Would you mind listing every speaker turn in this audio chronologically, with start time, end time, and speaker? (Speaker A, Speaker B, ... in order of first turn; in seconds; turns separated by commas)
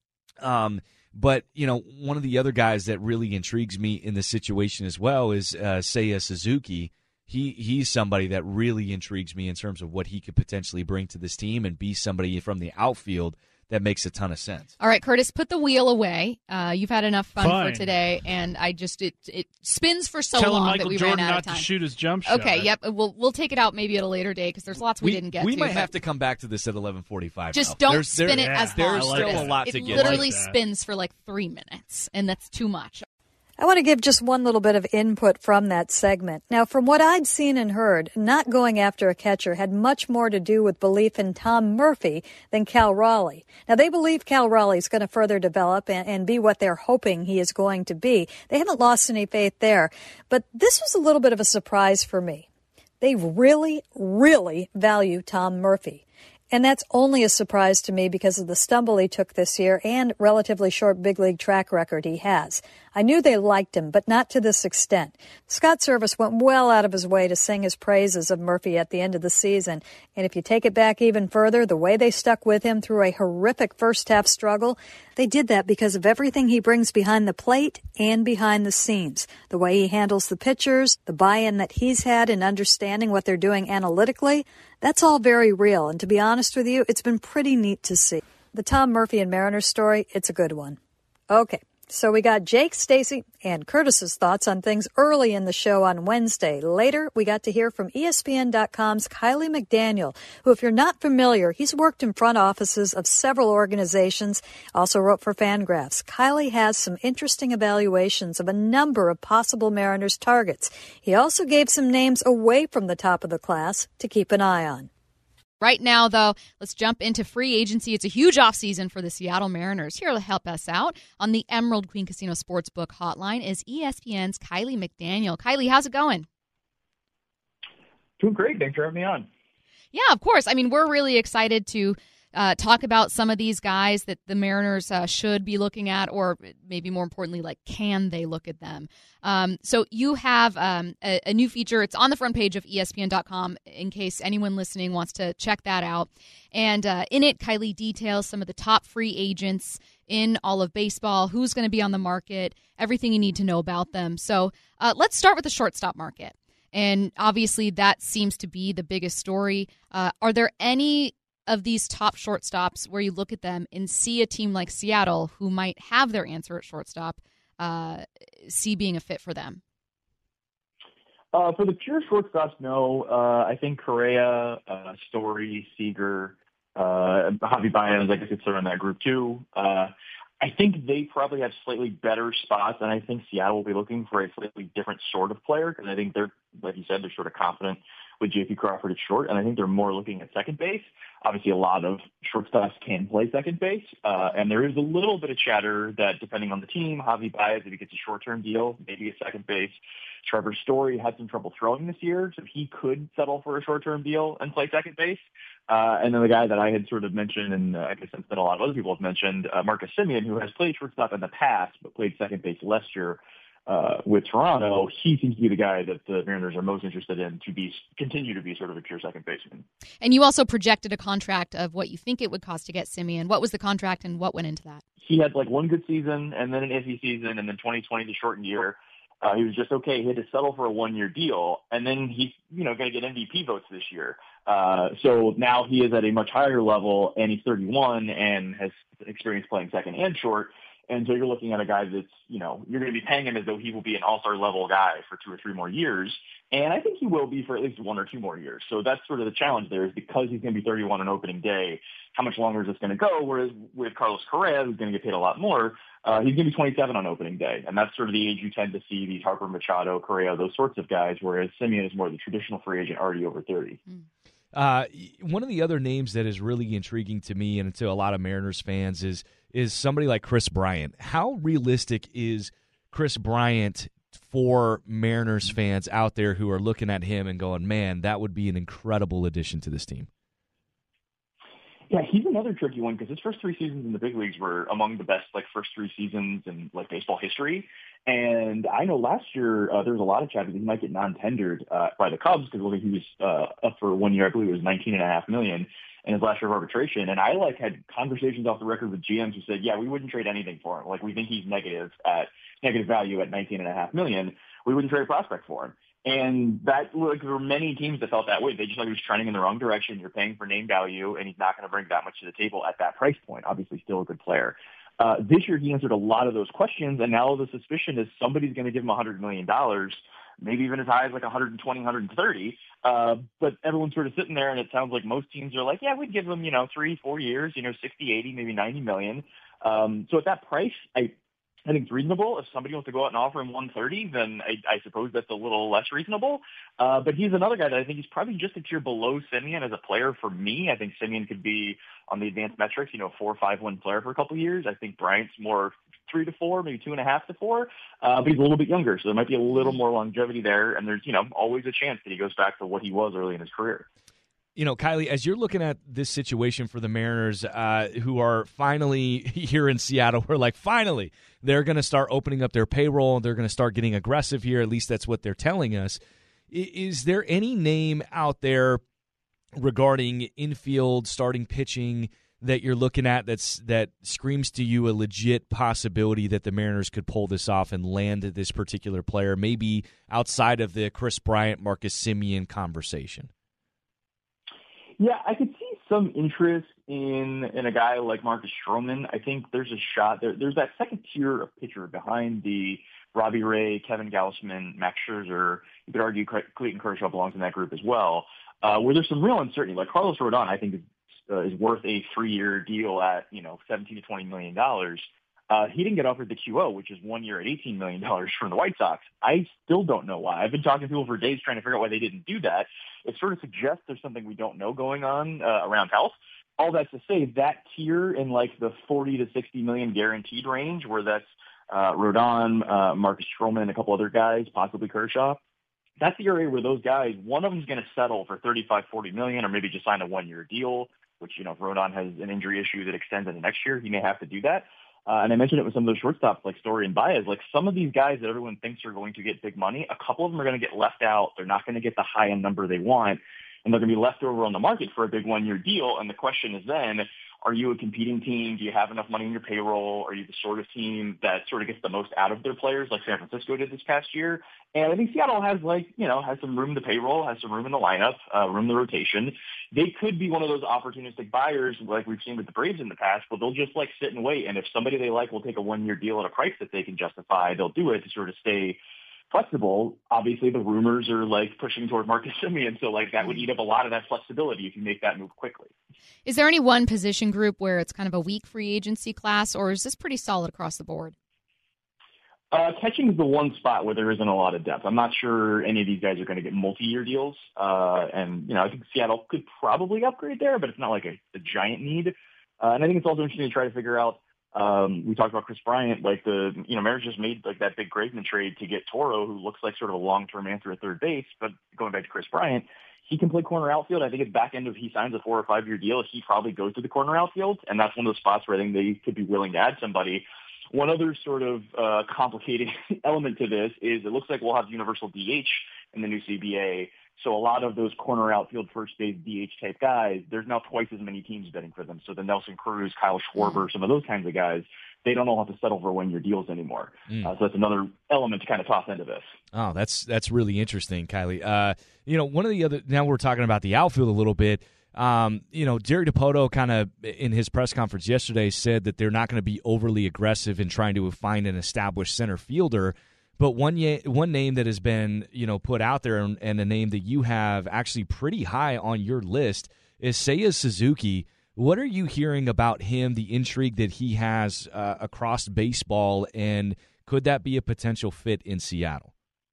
Speaker A: 0.4-14.7, Speaker B: 14.8-21.7, Speaker C: 17.4-18.0, Speaker C: 20.3-22.7, Speaker B: 22.2-25.9, Speaker A: 25.0-30.3, Speaker B: 27.5-33.0, Speaker C: 28.2-30.6, Speaker D: 33.6-52.5, Speaker D: 53.0-90.8, Speaker D: 91.3-114.9, Speaker B: 115.6-126.2, Speaker E: 128.2-129.3, Speaker B: 129.9-169.6, Speaker E: 171.3-219.7, Speaker B: 220.0-224.8, Speaker E: 225.0-263.8, Speaker A: 264.5-280.1, Speaker E: 281.9-331.1, Speaker E: 331.6-353.9, Speaker A: 354.6-366.0, Speaker A: 366.5-368.8, Speaker A: 369.5-383.3, Speaker E: 385.0-425.4, Speaker E: 426.0-468.8, Speaker E: 469.3-475.7, Speaker B: 476.2-481.1, Speaker E: 482.5-529.3, Speaker A: 529.5-559.1